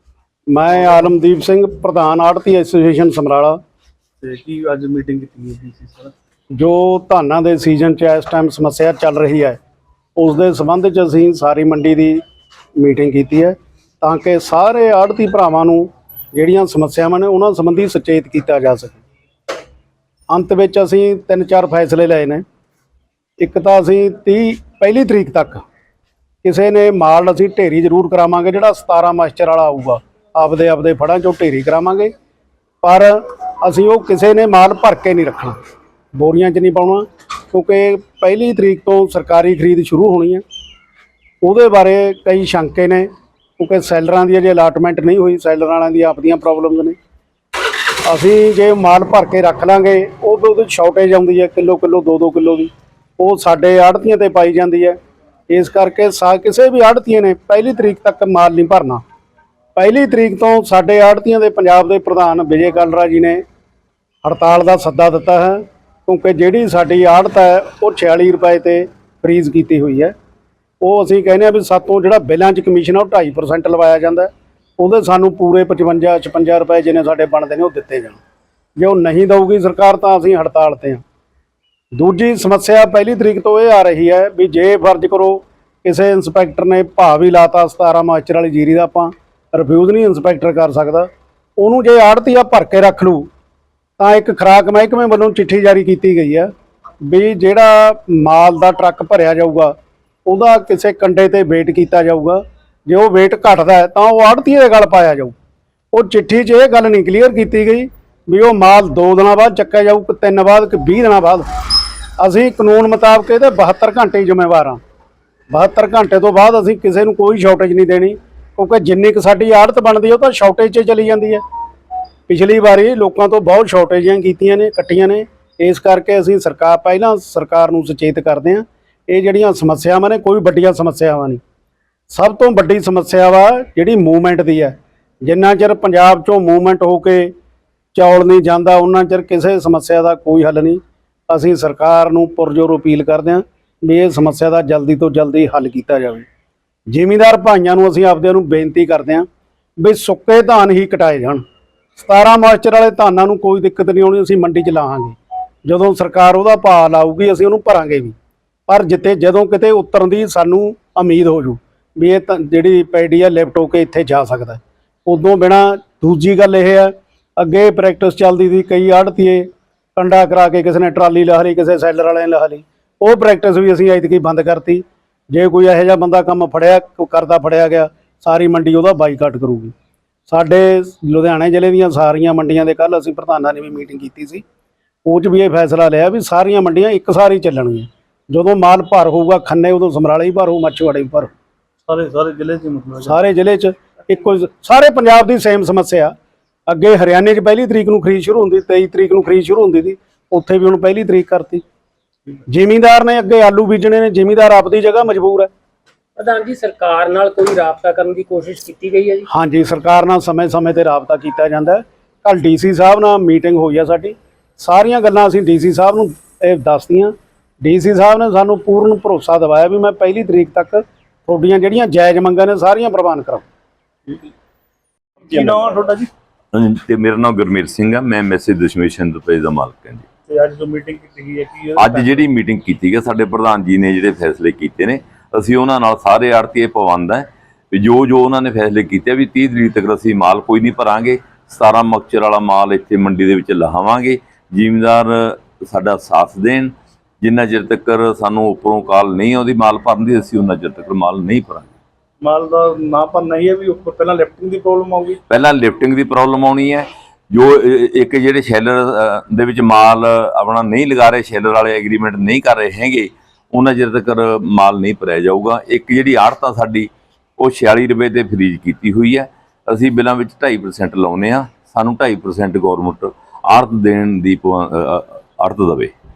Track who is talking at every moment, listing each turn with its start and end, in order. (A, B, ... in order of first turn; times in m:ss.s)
0:00.5-0:03.6 A
0:04.4-0:06.1 B
0:06.5-0:09.6 A
0:10.2-0:12.2 A
0:12.8-0:19.0 A
0:20.3-0:22.4 A
0:23.4-0:25.6 A
0:26.4-0:32.1 A
0:32.8-0:35.6 A
0:36.2-0:40.4 A
0:41.4-0:43.1 A
0:43.6-0:47.0 A
0:48.0-0:55.0 A
0:55.5-0:59.0 A
0:59.8-1:03.4 A
1:04.2-1:10.1 A
1:10.8-1:18.2 A
1:18.8-1:21.0 A
1:22.0-1:33.3 A
1:34.0-1:36.5 A
1:37.0-1:39.7 A
1:40.3-1:45.3 A
1:45.9-1:51.5 A
1:52.2-1:54.8 A
1:55.5-2:01.4 A
2:02.3-2:11.4 A
2:12.1-2:17.3 A
2:18.0-2:26.3 A
2:26.9-2:29.3 A
2:29.8-2:31.4 A
2:32.0-2:38.2 A
2:38.7-2:59.7 A
3:00.3-3:04.4 A
3:05.0-3:11.3 A
3:11.9-3:13.1 B
3:13.0-3:16.1 A
3:16.7-3:21.6 A
3:22.5-3:25.5 A
3:26.2-3:29.3 C
3:29.3-3:43.4 A
3:45.3-3:46.1 B
3:46.5-3:50.1 D
3:50.3-3:52.1 B
3:51.8-4:11.7 D
4:12.3-4:15.2 B
4:15.3-4:35.9 D